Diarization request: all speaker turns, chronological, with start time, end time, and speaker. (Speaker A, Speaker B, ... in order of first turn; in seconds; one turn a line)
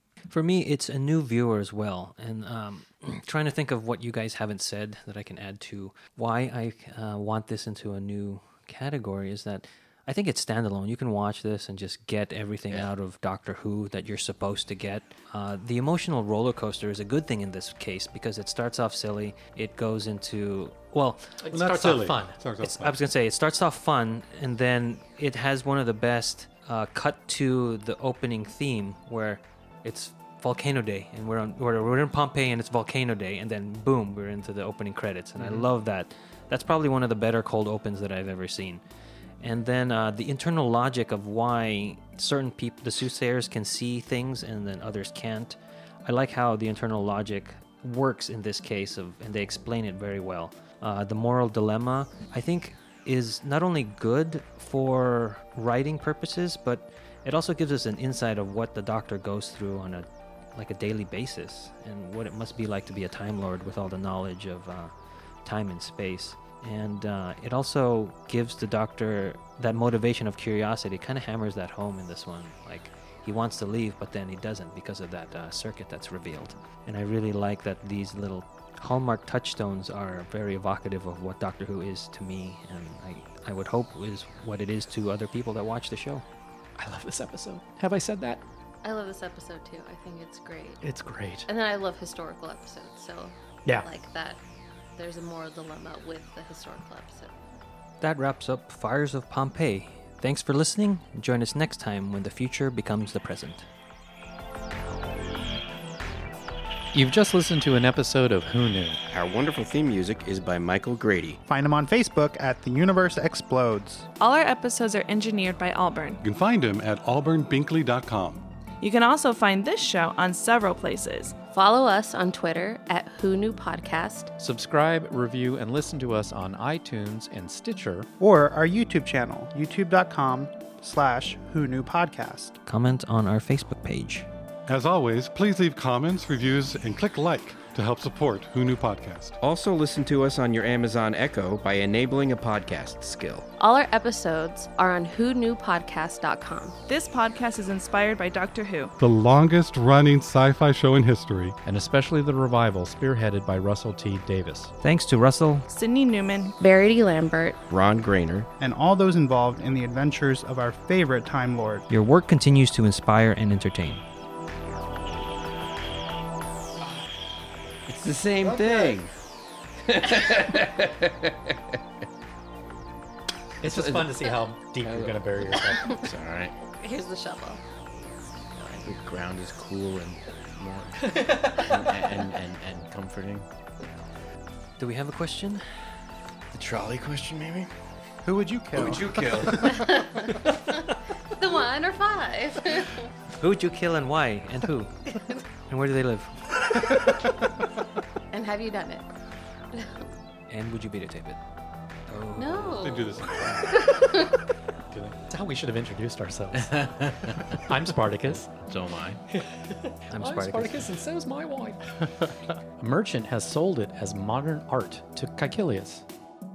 Speaker A: 0.3-21.3
Speaker B: 21.4-22.4
Speaker C: 21.5-23.0
Speaker A: 22.6-38.8
Speaker A: 39.4-64.9
Speaker A: 65.5-86.2
Speaker B: 86.8-88.4
Speaker D: 88.8-90.8
Speaker B: 90.8-91.5
Speaker D: 91.5-94.4
Speaker D: 95.0-97.3
Speaker A: 98.0-103.7
Speaker B: 106.9-109.0
Speaker E: 109.1-111.4
Speaker F: 111.5-114.1
Speaker G: 114.2-116.2
Speaker C: 116.2-118.4
Speaker G: 118.8-121.4
Speaker D: 121.5-124.3
Speaker B: 124.4-128.1
Speaker F: 128.2-132.6
Speaker A: 132.7-134.3
Speaker C: 134.7-139.4
Speaker E: 139.4-143.5
Speaker D: 143.6-146.8
Speaker G: 146.9-148.9
Speaker C: 149.0-151.6
Speaker B: 151.7-154.7
Speaker A: 154.8-155.7
Speaker G: 155.7-156.6
Speaker D: 156.6-157.6
Speaker E: 157.7-158.5
Speaker F: 158.6-161.9
Speaker A: 161.9-164.0
Speaker E: 167.9-169.1
Speaker F: 168.4-168.9
Speaker E: 169.8-171.8
Speaker B: 173.6-176.0
Speaker E: 173.6-174.2
Speaker E: 174.8-176.5
Speaker D: 176.8-177.6
Speaker E: 178.8-183.5
Speaker B: 181.0-182.1
Speaker A: 184.8-185.7
Speaker E: 186.5-187.7
Speaker F: 188.2-189.1
Speaker E: 188.7-189.9
Speaker D: 189.6-193.1
Speaker A: 193.4-195.1
Speaker A: 195.7-196.4
Speaker D: 198.3-199.1
Speaker D: 199.7-200.0
Speaker A: 200.5-201.4
Speaker A: 202.1-202.9
Speaker D: 202.4-204.4
Speaker C: 202.8-203.9
Speaker B: 204.9-206.9
Speaker E: 206.5-207.7
Speaker B: 207.7-208.5
Speaker E: 208.2-209.2
Speaker B: 209.3-212.0
Speaker A: 210.1-210.9
Speaker B: 212.8-216.1